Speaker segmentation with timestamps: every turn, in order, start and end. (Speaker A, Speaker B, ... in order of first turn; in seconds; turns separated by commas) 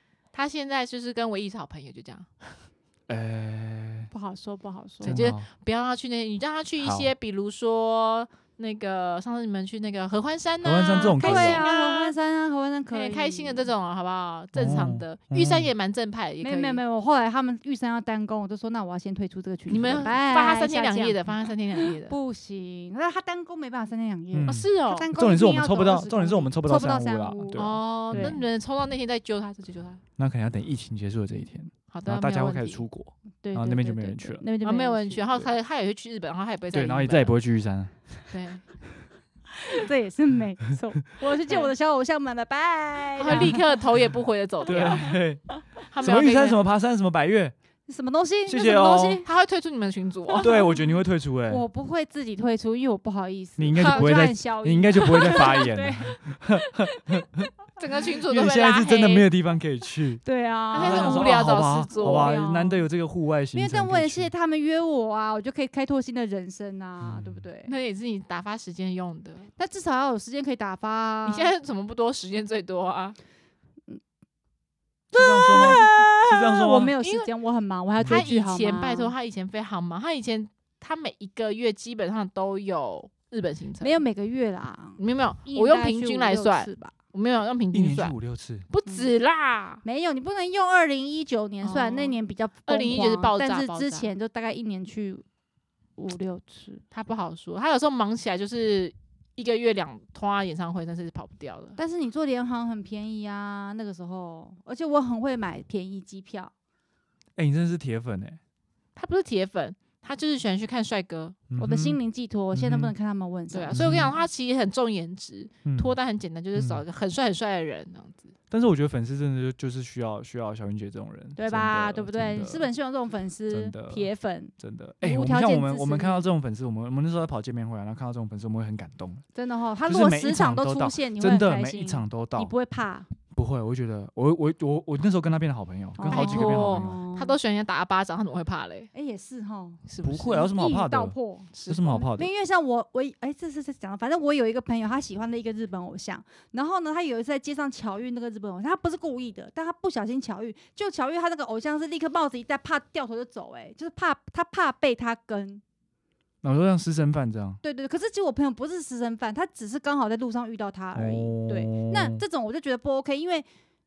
Speaker A: 0.3-2.6, Speaker B: 3.1-4.1, Speaker C: 4.1-5.3, Speaker A: 5.0-12.1, Speaker B: 5.0-5.5, Speaker B: 6.8-7.1, Speaker B: 10.6-11.6, Speaker C: 10.9-13.7, Speaker A: 12.9-16.8, Speaker B: 14.5-15.7, Speaker C: 16.4-21.2, Speaker A: 19.7-22.1, Speaker C: 21.8-28.4, Speaker B: 24.3-28.4, Speaker A: 24.5-25.1, Speaker A: 27.5-30.0, Speaker B: 30.2-34.4, Speaker A: 31.9-32.8, Speaker C: 33.4-35.4, Speaker A: 34.6-37.4, Speaker B: 36.7-37.9, Speaker A: 38.3-38.6, Speaker C: 39.6-43.6, Speaker A: 41.5-41.7, Speaker A: 43.2-45.1, Speaker B: 43.3-43.6, Speaker B: 44.6-45.4, Speaker A: 45.9-46.6, Speaker B: 46.0-47.5, Speaker C: 47.9-49.3, Speaker B: 48.5-49.2, Speaker A: 49.2-50.5, Speaker C: 50.3-50.8, Speaker B: 50.4-51.6, Speaker C: 51.5-57.2, Speaker B: 53.6-57.5, Speaker A: 53.8-54.1, Speaker A: 55.2-55.6, Speaker A: 57.8-59.3, Speaker B: 58.2-60.2, Speaker C: 60.2-62.9, Speaker A: 60.7-62.4, Speaker B: 60.8-64.3, Speaker C: 63.5-67.7, Speaker B: 67.0-67.4, Speaker A: 67.6-69.5, Speaker C: 69.6-71.5, Speaker A: 71.2-73.2, Speaker B: 75.1-76.9, Speaker C: 75.1-79.1, Speaker A: 77.0-77.3, Speaker A: 78.0-84.0, Speaker C: 83.8-86.9, Speaker A: 85.0-88.1, Speaker B: 87.7-88.7, Speaker A: 88.7-89.8, Speaker C: 89.8-95.2, Speaker A: 91.6-94.1, Speaker C: 96.0-96.8, Speaker A: 96.9-101.8, Speaker C: 101.8-106.5, Speaker B: 107.3-108.4, Speaker A: 109.0-111.4, Speaker B: 111.5-112.0, Speaker C: 111.6-114.1, Speaker B: 112.5-112.9, Speaker A: 113.5-118.3, Speaker B: 113.7-114.1, Speaker B: 115.6-115.9, Speaker B: 116.5-116.8, Speaker B: 118.5-122.7, Speaker C: 121.3-126.3, Speaker B: 123.5-129.2, Speaker C: 129.3-133.1, Speaker B: 129.8-132.5, Speaker B: 133.3-137.0, Speaker C: 136.0-137.3, Speaker A: 136.1-138.9, Speaker C: 138.9-155.6, Speaker A: 139.9-140.4, Speaker B: 140.0-142.3, Speaker A: 141.5-142.1, Speaker B: 156.4-157.6, Speaker C: 157.6-163.5, Speaker B: 160.9-162.2